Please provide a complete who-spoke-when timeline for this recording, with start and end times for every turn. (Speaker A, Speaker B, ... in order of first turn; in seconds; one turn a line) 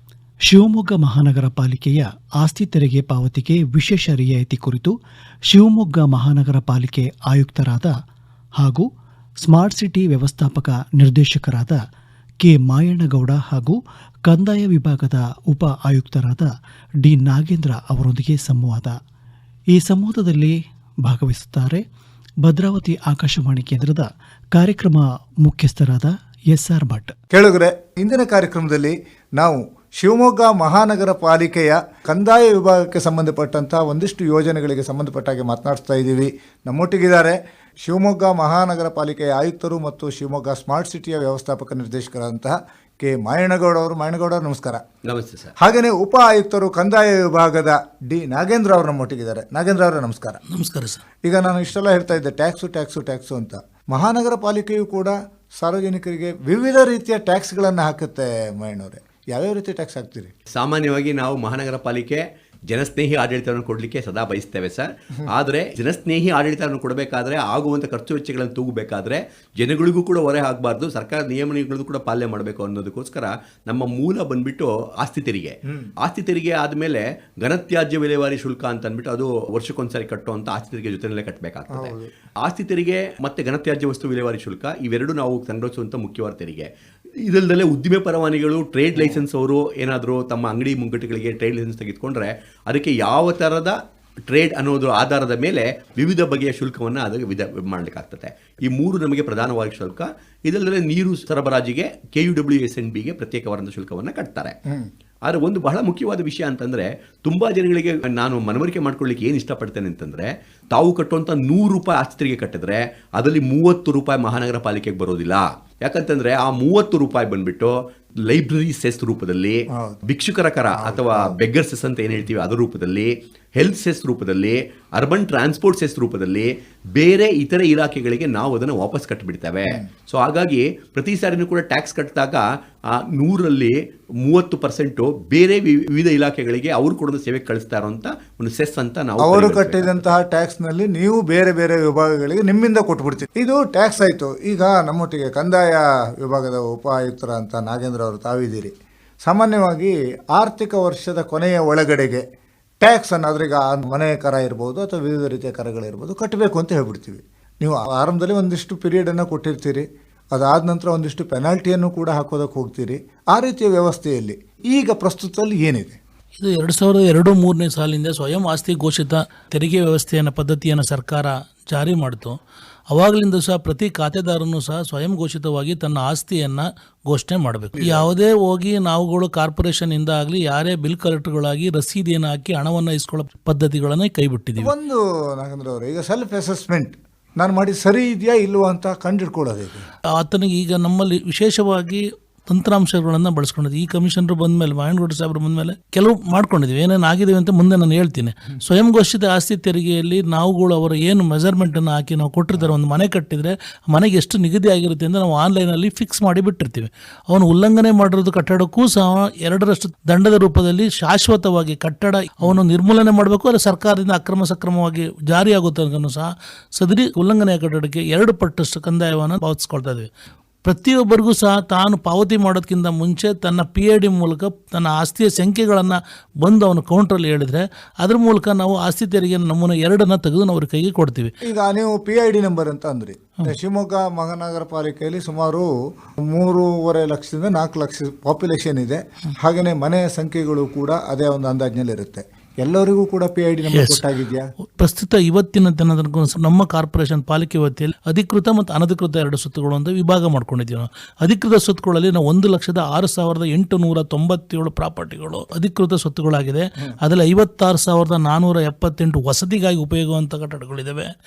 Speaker A: 0.5-5.0
Speaker A: 5.5-7.9
Speaker A: 8.6-8.9
Speaker A: 9.4-11.8
Speaker A: 12.4-16.5
Speaker A: 17.1-18.9
Speaker A: 19.7-21.8
Speaker A: 22.5-27.1
Speaker B: 27.3-44.8
Speaker C: 45.0-45.5
Speaker B: 45.6-50.4
Speaker D: 50.5-51.0
Speaker B: 51.2-60.3
Speaker C: 60.5-86.7
Speaker B: 81.8-82.1
Speaker C: 87.2-93.8
Speaker C: 94.3-104.6
Speaker C: 105.2-140.2
Speaker B: 120.8-121.3
Speaker B: 139.2-148.7
Speaker B: 149.3-152.2
Speaker B: 152.8-166.0
Speaker D: 166.4-172.4
Speaker D: 172.9-184.7
Speaker B: 177.8-178.1
Speaker B: 184.6-189.9
Speaker D: 190.2-220.1
Speaker D: 220.6-231.3
Speaker B: 231.5-244.5
Speaker D: 243.7-244.0
Speaker D: 244.8-261.1